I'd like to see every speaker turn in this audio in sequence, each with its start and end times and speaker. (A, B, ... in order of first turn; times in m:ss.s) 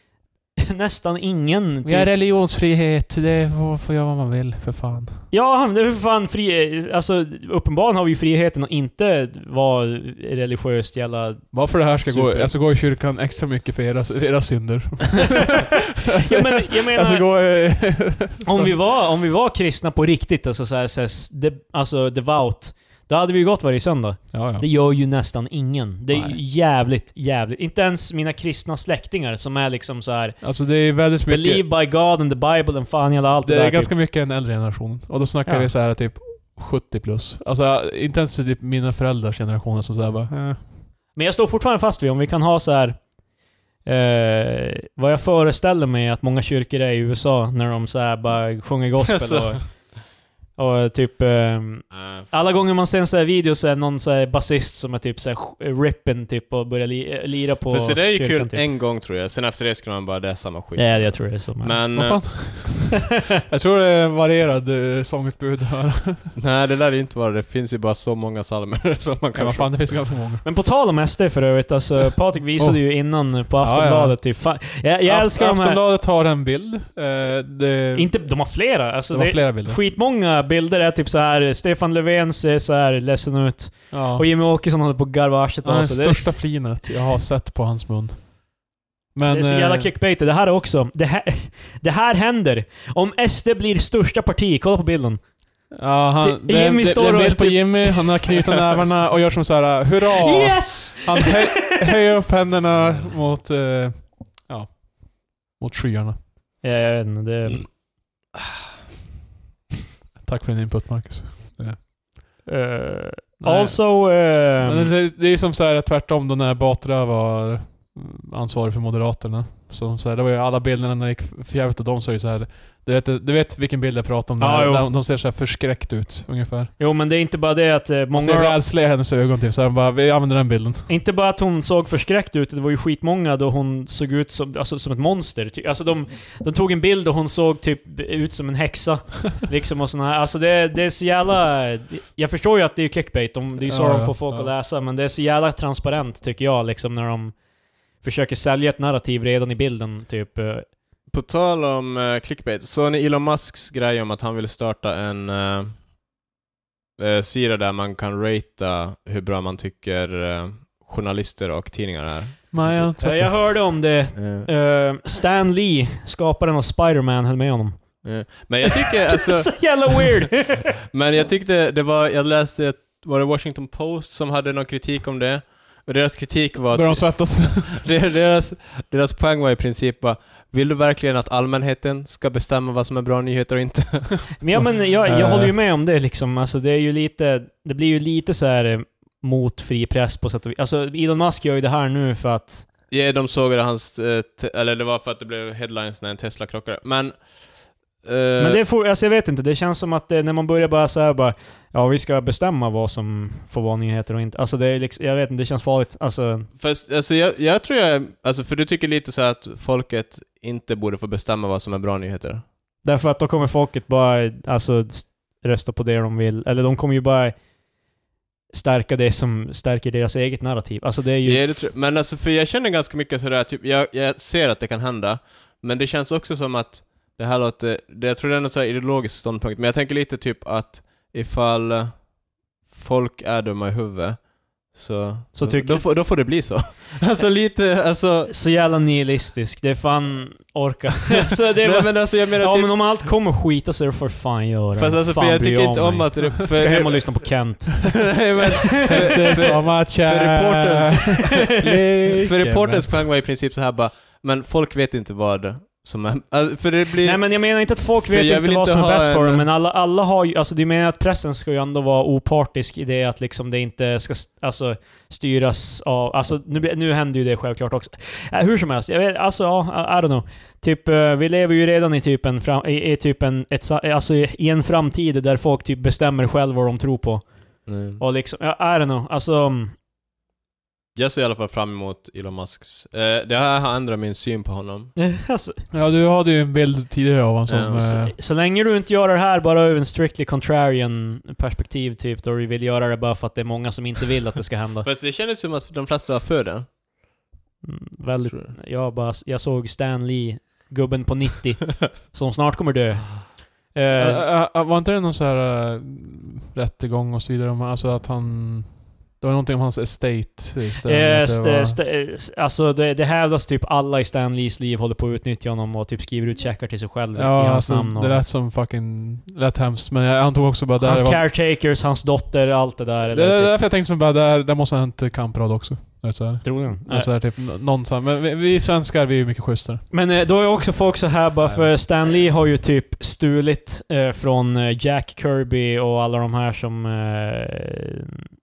0:00.6-0:02.1 A
0:01.8-0:05.3 B
0:05.3-0:12.6 A
0:11.5-0:18.7 B
0:16.2-0:17.9 A
0:18.4-0:34.0 A
0:24.3-0:24.7 B
0:26.1-0:26.4 B
0:30.4-0:31.6 B
0:33.4-0:40.7 B
0:35.4-0:35.7 A
0:41.1-0:43.2 A
0:43.8-0:58.6 A
0:49.1-0:49.6 C
0:51.9-0:52.3 C
0:57.7-1:02.5 C
1:00.8-1:01.8 A
1:01.9-1:06.3 B
1:06.4-1:10.0 C
1:09.3-1:10.4 B
1:10.4-1:15.8 A
1:12.6-1:19.8 B
1:17.9-1:26.6 A
1:23.9-1:24.2 B
1:25.6-1:28.4 B
1:29.1-1:29.9 B
1:29.3-1:39.0 A
1:35.7-1:46.2 B
1:40.2-1:41.6 A
1:46.6-1:47.8 A
1:50.2-1:51.8 B
1:52.4-1:54.9 A
1:53.4-2:06.7 B
2:04.4-2:04.9 A
2:06.8-2:08.6 A
2:08.1-2:10.9 B
2:10.9-2:30.8 A
2:23.6-2:24.5 B
2:31.1-2:35.9 C
2:37.0-2:42.9 C
2:42.5-2:43.3 B
2:43.0-2:50.7 A
2:44.1-2:44.5 C
2:48.0-3:04.3 C
2:56.7-2:57.8 B
3:04.4-3:12.7 A
3:05.0-3:05.5 B
3:12.9-3:18.6 C
3:18.4-3:26.5 A
3:26.6-3:32.4 C
3:32.8-3:37.4 A
3:38.5-3:41.5 A
3:41.2-3:58.3 C
3:55.3-3:56.3 A
3:58.3-4:09.5 A
4:01.6-4:02.9 C
4:04.8-4:11.5 C
4:08.8-4:13.0 B
4:12.2-4:19.5 C
4:17.0-4:39.8 A
4:37.6-4:38.0 C
4:40.9-4:44.9 C
4:45.0-4:45.6 A
4:45.7-4:48.1 B
4:47.5-4:47.8 C
4:47.7-4:54.9 A
4:54.8-4:56.7 C
4:57.6-5:04.3 A
4:58.2-4:58.5 C
5:03.9-5:11.8 B
5:10.8-5:18.2 A
5:17.1-5:21.2 B
5:20.8-5:23.6 A
5:23.1-5:29.8 B
5:26.4-5:27.1 A
5:29.9-5:38.2 A